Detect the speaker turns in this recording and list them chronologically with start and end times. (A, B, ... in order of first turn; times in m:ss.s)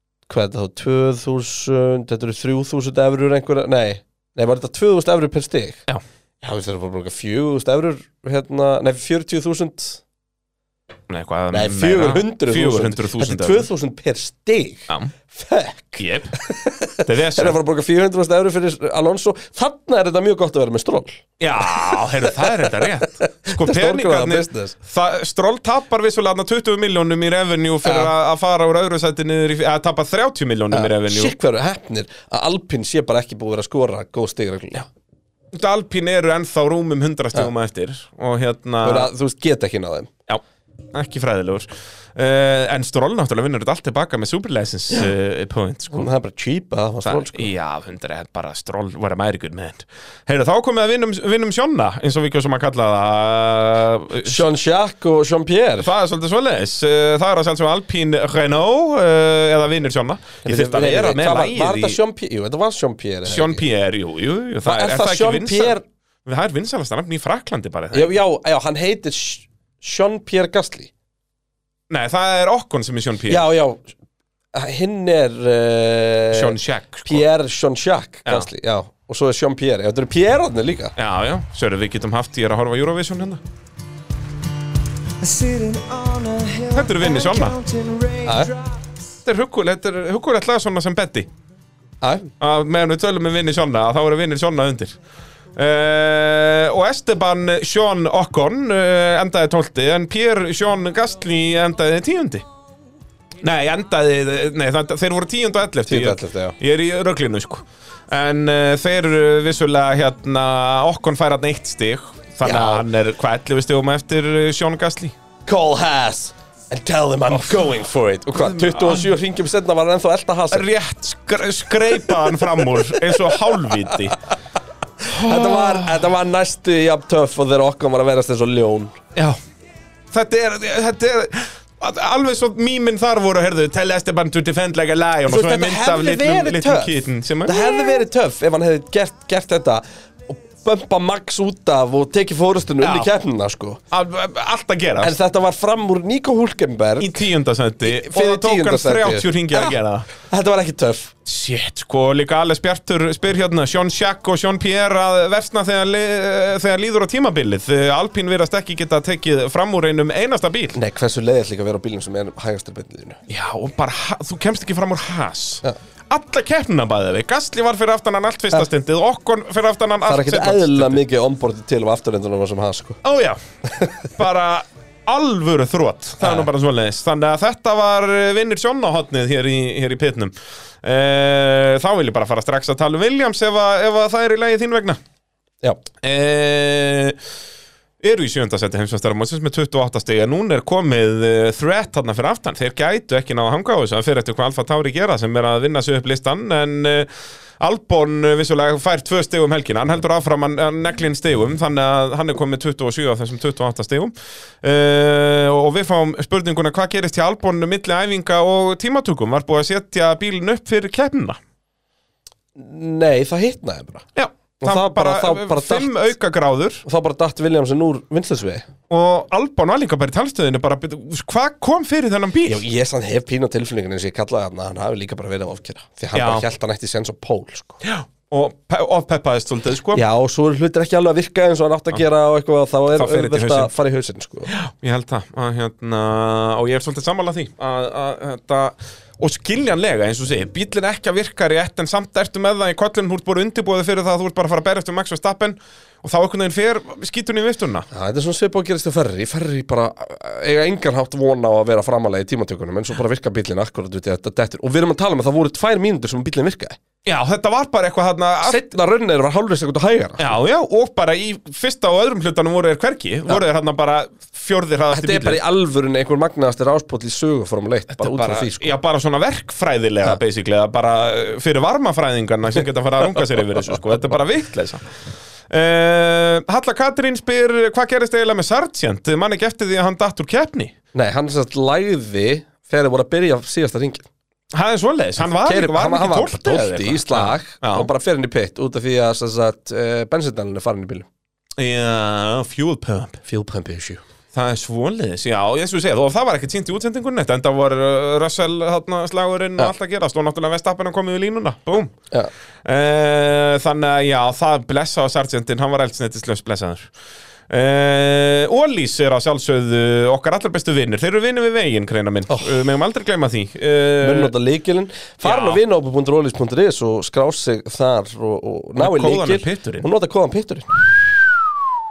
0:00.3-0:05.8 A
0:06.4-0:10.0 A
0:11.1-0:13.7 B
0:11.5-0:24.8 A
0:16.0-0:16.3 B
0:17.0-0:17.6 B
0:21.4-0:31.3 B
0:27.8-0:28.1 A
0:30.7-0:34.9 A
0:35.5-0:39.1 B
0:38.8-0:40.1 A
0:40.9-0:46.1 B
0:45.9-0:47.5 A
0:47.0-0:54.5 B
0:54.2-0:55.9 A
0:55.8-1:02.0 B
1:00.4-1:03.6 A
1:03.2-1:08.1 B
1:04.6-1:05.8 A
1:07.9-1:10.9 A
1:11.9-1:13.5 B
1:13.3-1:13.9 A
1:14.5-1:20.9 A
1:16.3-1:17.2 B
1:21.0-1:23.4 B
1:25.2-1:28.8 C
1:26.7-1:27.6 B
1:28.2-1:28.5 A
1:29.2-1:31.3 B
1:32.0-1:32.3 A
1:32.4-1:35.0 B
1:35.6-1:42.4 B
1:43.4-1:55.1 B
1:45.9-1:46.6 A
1:52.4-1:52.8 A
1:55.4-2:00.7 A
1:57.3-1:57.7 B
1:58.3-1:59.1 B
2:00.5-2:04.2 B
2:05.1-2:06.0 B
2:05.1-2:09.0 A
2:10.1-2:18.0 B
2:15.3-2:23.8 A
2:22.8-2:23.1 B
2:23.9-2:25.2 B
2:25.0-2:27.2 A
2:27.0-2:30.1 B
2:27.8-2:31.1 A
2:31.2-2:40.8 B
2:40.7-2:43.2 A
2:43.3-2:51.0 B
2:50.0-2:53.0 A
2:53.0-2:53.4 B
2:54.1-3:05.0 B
2:56.2-2:56.5 A
3:06.0-3:07.2 B
3:08.0-3:17.1 B
3:17.6-3:31.4 B
3:32.6-3:34.0 A
3:34.1-3:36.8 B
3:34.6-3:35.9 A
3:36.8-3:38.7 A
3:38.9-3:42.6 B
3:42.4-3:47.8 A
3:46.1-3:46.4 B
3:47.8-3:50.0 B
3:49.9-3:54.5 A
3:52.9-3:53.7 B
3:54.5-4:07.9 B
4:07.9-4:16.8 A
4:17.0-4:18.6 B
4:18.4-4:20.3 A
4:20.2-4:25.4 B
4:24.9-4:28.8 A
4:27.9-4:34.8 B
4:35.5-4:40.7 B
4:40.9-4:44.0 A
4:44.5-4:47.9 B
4:45.4-4:51.1 A
4:51.6-4:53.2 B
4:53.2-4:54.0 A
4:54.3-5:01.9 B
5:02.6-5:06.9 B
5:07.5-5:14.3 B
5:14.0-5:21.3 A
5:15.2-5:15.6 B
5:18.8-5:19.9 B